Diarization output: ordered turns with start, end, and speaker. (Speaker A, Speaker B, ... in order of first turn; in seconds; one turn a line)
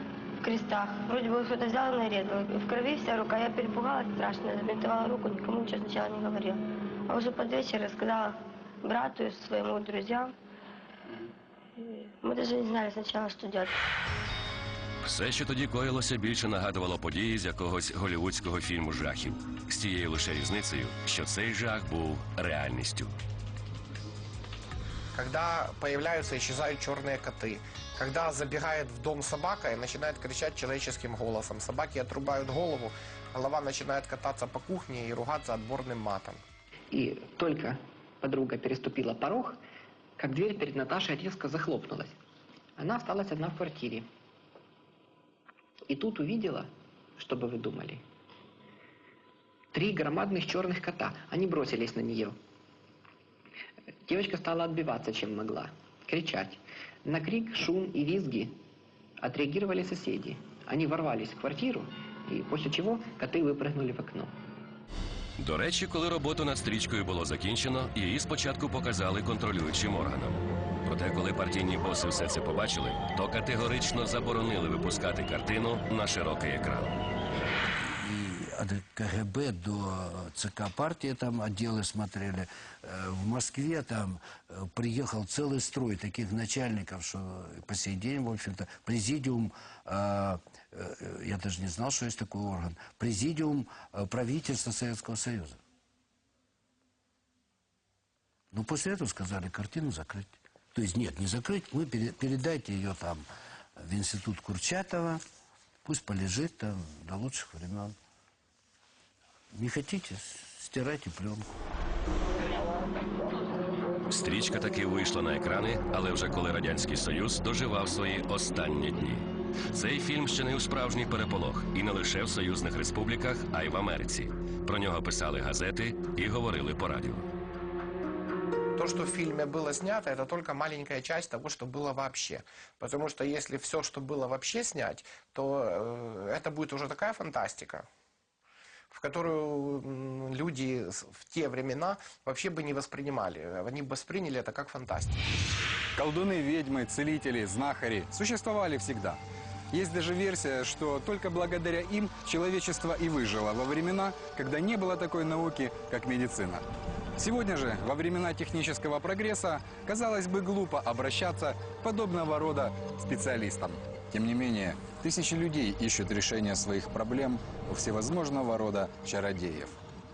Speaker A: 0.4-10.3
Speaker A: 11.8-13.8
Speaker B: 15.0-23.1
Speaker C: 25.1-36.4
Speaker D: 36.9-39.6
Speaker D: 40.2-42.1
Speaker D: 42.8-44.0
Speaker D: 45.9-46.7
Speaker D: 47.2-48.0
Speaker D: 49.8-52.4
Speaker D: 54.2-58.5
Speaker D: 59.2-64.3
Speaker B: 65.4-77.0
Speaker E: 77.8-95.6
Speaker E: 98.5-103.2
Speaker E: 103.8-105.2
Speaker E: 105.8-107.9
Speaker E: 109.5-111.5
Speaker B: 114.1-127.3
Speaker C: 128.8-137.8
Speaker C: 138.9-145.2
Speaker F: 145.9-149.2
Speaker F: 149.7-156.6
Speaker F: 157.2-169.8